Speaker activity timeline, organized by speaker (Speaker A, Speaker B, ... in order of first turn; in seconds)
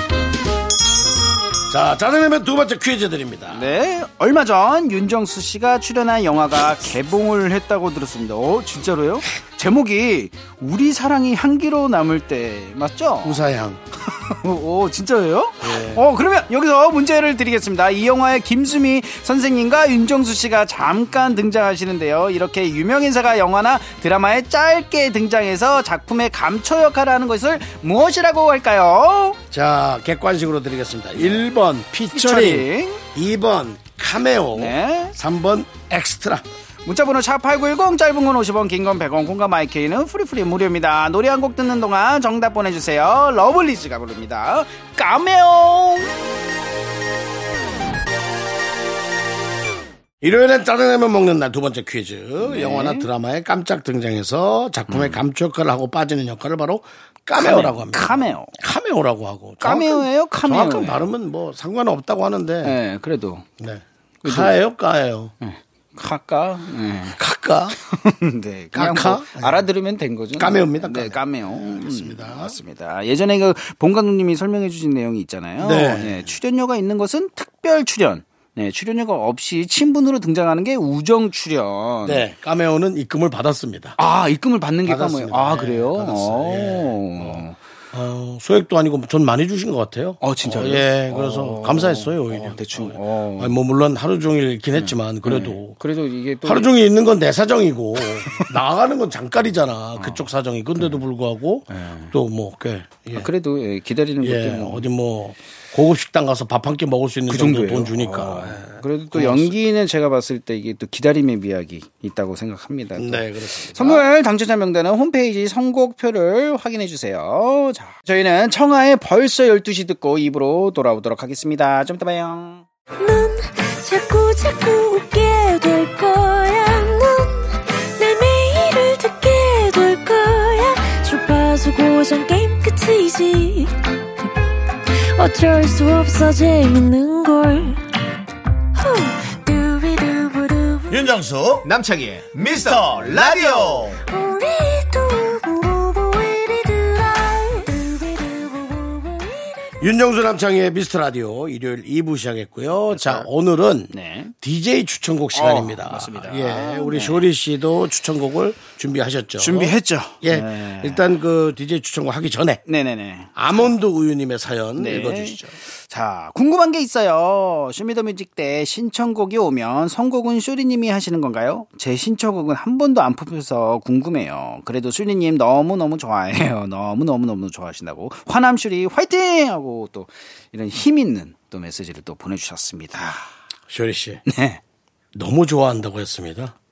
Speaker A: 1.7-3.7, 13.2-13.8, 15.6-16.0, 29.5-36.4, 50.2-62.8, 63.6-65.3, 67.1-67.8, 68.7-69.7, 70.3-72.6, 75.6-76.3, 82.0-84.0, 84.8-95.8, 96.4-103.3, 104.2-109.5, 113.0-114.0, 149.8-162.6, 163.3-165.5, 183.7-184.2, 185.1-186.5
Speaker B: 3.5-13.4, 14.1-29.4, 32.1-33.0, 34.5-35.1, 36.8-46.1, 52.4-53.1, 54.9-55.2, 57.4-58.6, 59.6-61.1, 62.6-63.5, 64.2-64.6, 65.4-67.2, 67.8-82.2, 84.0-87.6, 90.2-93.6, 94.8-96.7, 98.0-98.5, 100.0-100.3, 101.7-102.1, 103.1-104.9, 107.3-122.6, 152.9-153.3, 153.9-154.3, 155.3-157.3, 159.4-161.1, 162.7-163.7, 164.8-183.2, 184.3-184.6
Speaker C: 123.0-134.2, 134.9-137.8, 138.7-141.0, 144.1-149.7
Speaker D: 140.9-144.0